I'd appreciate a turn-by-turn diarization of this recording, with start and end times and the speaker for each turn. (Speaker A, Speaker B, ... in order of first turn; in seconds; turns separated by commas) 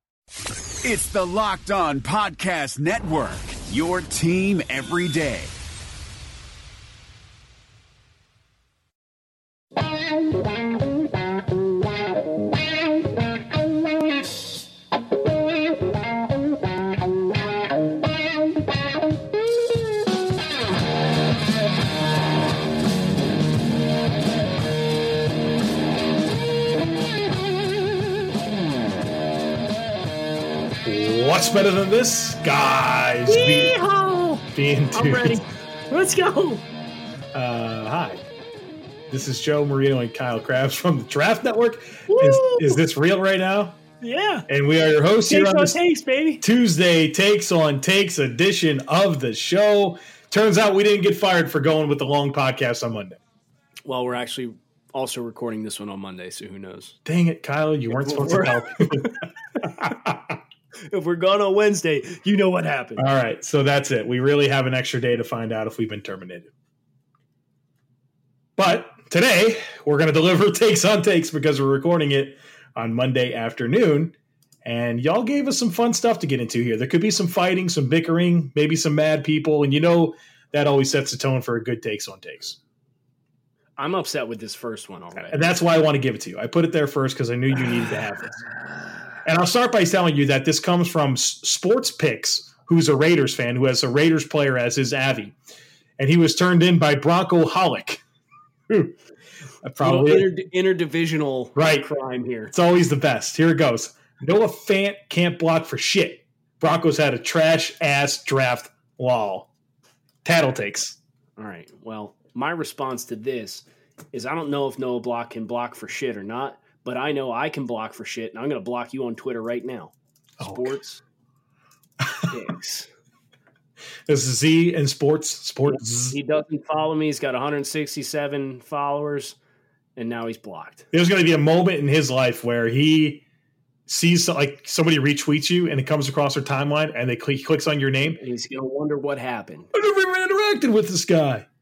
Speaker A: 0.8-5.5, Speaker B: 30.9-33.7, Speaker C: 33.3-36.6, Speaker B: 34.5-35.4, Speaker B: 37.3-38.2, Speaker B: 39.1-43.8, Speaker C: 42.1-42.8, Speaker C: 44.0-44.5, Speaker B: 44.5-45.8, Speaker C: 45.3-46.4, Speaker B: 46.4-53.2, Speaker C: 53.9-57.0, Speaker B: 57.0-60.4, Speaker C: 57.9-59.1, Speaker C: 60.9-63.0, Speaker B: 63.0-66.5, Speaker B: 68.6-82.6, Speaker C: 83.8-85.4, Speaker B: 85.3-88.4, Speaker B: 89.2-95.4, Speaker B: 96.0-98.0, Speaker B: 98.7-99.0, Speaker B: 99.6-100.2, Speaker C: 99.8-102.5, Speaker B: 101.5-101.9, Speaker B: 102.5-109.5, Speaker B: 110.2-111.0, Speaker C: 111.4-121.0, Speaker B: 120.4-120.8, Speaker B: 122.0-122.3, Speaker C: 122.3-122.9, Speaker B: 124.1-126.2, Speaker C: 125.7-129.4, Speaker C: 130.0-130.9, Speaker B: 130.9-133.2, Speaker B: 133.9-138.2, Speaker C: 138.2-139.7, Speaker B: 139.7-141.5